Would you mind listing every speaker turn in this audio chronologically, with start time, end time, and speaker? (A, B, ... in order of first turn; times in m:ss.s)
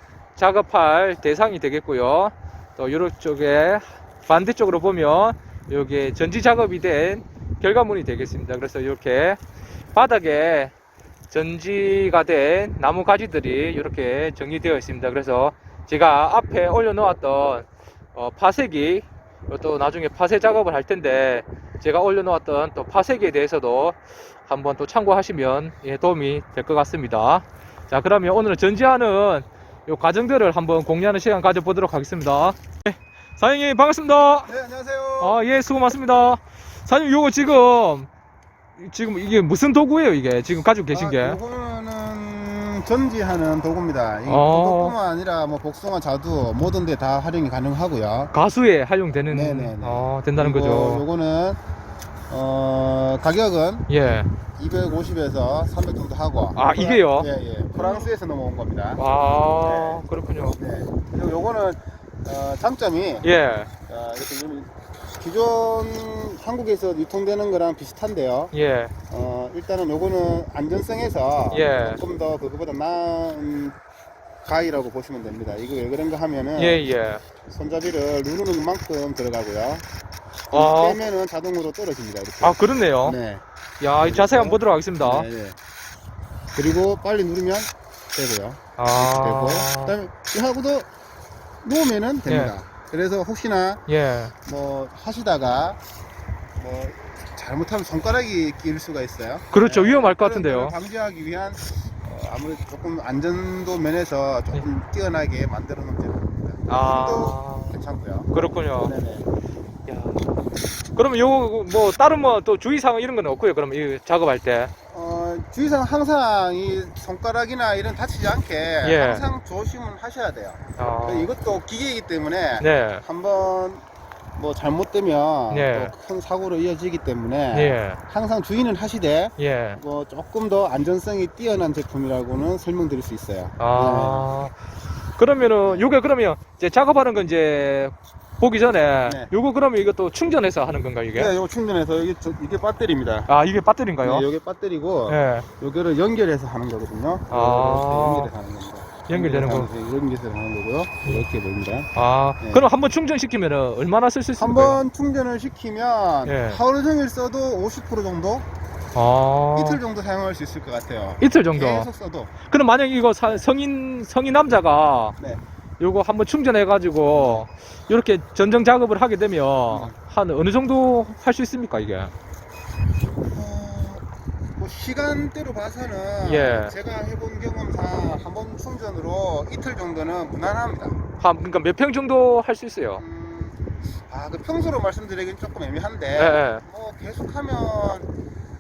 0:00.4-0:09.4 A
0:09.9-0:10.7 A
0:11.3-0:34.5 A
0:34.5-0:35.4 B
0:35.2-0:38.1 A
0:38.8-0:41.4 A
0:40.9-0:48.3 B
0:44.3-0:45.0 A
0:48.3-0:51.1 A
0:49.3-0:51.6 B
0:52.3-0:53.9 B
0:53.9-0:54.3 A
0:54.6-0:59.0 B
0:56.6-0:58.1 A
0:59.0-1:00.6 A
0:59.6-1:03.3 B
1:03.2-1:03.7 A
1:03.9-1:08.5 B
1:08.5-1:08.9 A
1:09.1-1:13.8 B
1:11.5-1:12.0 A
1:14.4-1:16.8 B
1:16.6-1:17.2 A
1:17.5-1:19.8 B
1:20.5-1:23.4 B
1:20.5-1:21.0 A
1:22.4-1:23.2 A
1:23.8-1:25.3 A
1:24.0-1:25.6 B
1:26.5-1:30.9 B
1:28.8-1:29.9 A
1:31.6-1:33.8 B
1:32.3-1:32.5 A
1:33.9-1:34.3 A
1:34.4-1:35.8 B
1:36.6-1:49.3 B
1:39.5-1:40.7 A
1:46.7-1:47.8 A
1:48.3-1:48.9 A
1:49.9-1:50.2 A
1:50.9-1:54.7 A
1:54.9-2:03.8 B
1:58.8-1:59.2 A
2:00.8-2:01.3 A
2:02.6-2:03.0 A
2:04.4-2:14.3 B
2:05.5-2:05.9 A
2:07.5-2:08.0 A
2:09.4-2:09.8 A
2:13.6-2:14.5 A
2:15.2-2:21.3 A
2:15.6-2:15.9 B
2:19.0-2:19.3 B
2:21.1-2:23.3 B
2:23.3-2:24.3 A
2:24.0-2:32.7 B
2:25.1-2:25.4 A
2:27.3-2:28.3 A
2:29.1-2:29.7 A
2:31.9-2:34.8 A
2:34.3-2:38.5 B
2:36.2-2:36.6 A
2:39.0-2:39.8 A
2:39.5-2:42.3 B
2:41.2-2:41.9 A
2:42.5-2:45.2 A
2:45.8-2:52.1 A
2:47.1-2:47.5 B
2:49.7-2:50.0 B
2:53.2-2:54.0 B
2:54.6-3:01.0 B
2:56.2-2:56.7 A
3:01.2-3:03.0 A
3:03.0-3:08.1 B
3:06.2-3:06.6 A